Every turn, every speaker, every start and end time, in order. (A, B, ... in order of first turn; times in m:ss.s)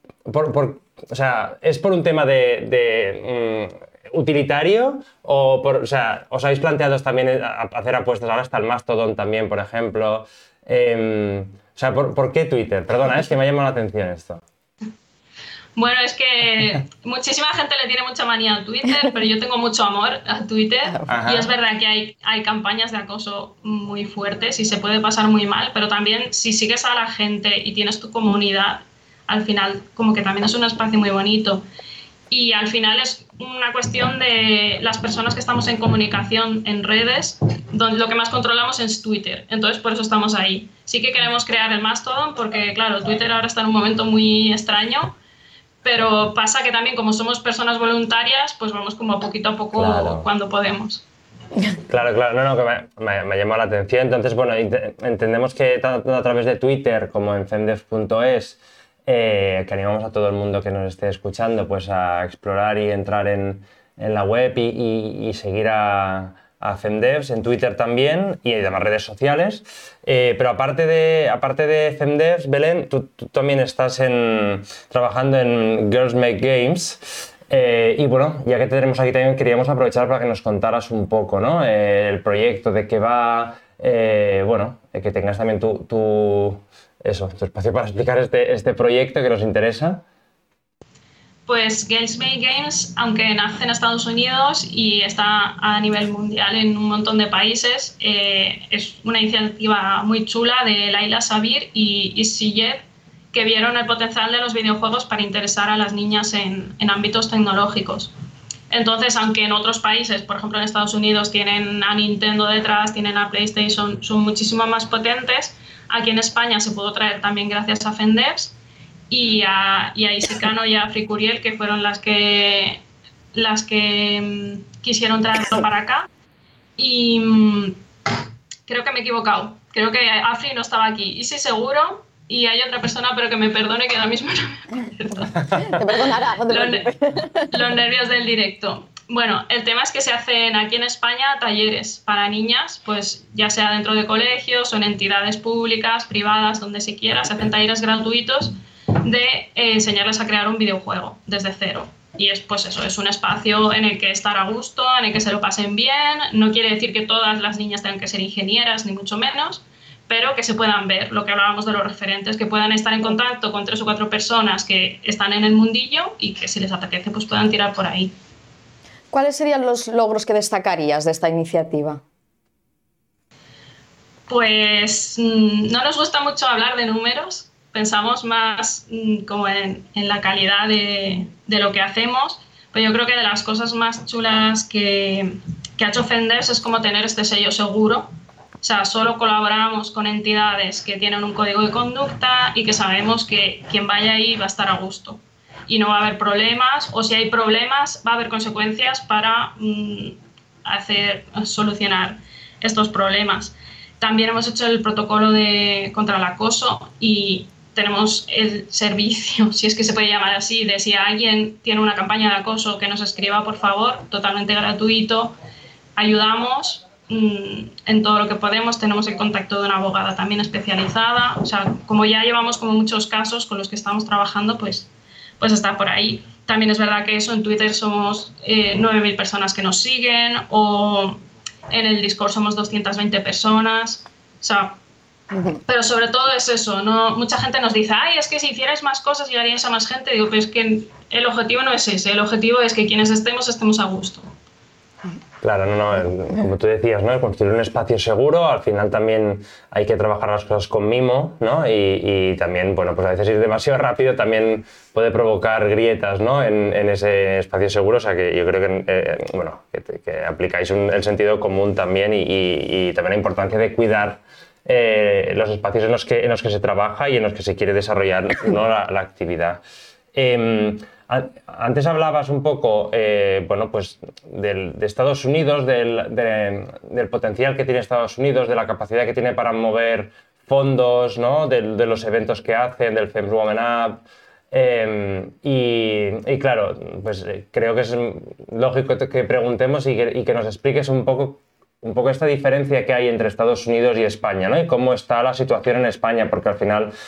0:00.3-0:14.4 A
0:15.8-0:31.6 B
0:21.1-0:21.5 A
0:32.3-0:45.2 B
0:45.8-0:51.0 B
0:49.8-0:50.3 A
0:51.9-1:30.0 A
1:31.5-1:48.1 B
1:48.7-1:58.5 B
1:59.1-2:02.8 B
2:03.3-2:06.1 B
2:06.8-2:07.8 B
2:08.7-2:15.8 B
2:15.6-2:17.6 C
2:16.5-2:16.9 B
2:17.4-2:48.1 B
2:49.1-2:52.0 C
2:54.3-3:08.1 B
3:08.6-3:35.4 B
3:36.0-3:54.8 B
3:55.6-4:04.3 B
4:05.4-4:29.6 A
4:30.2-4:56.9 A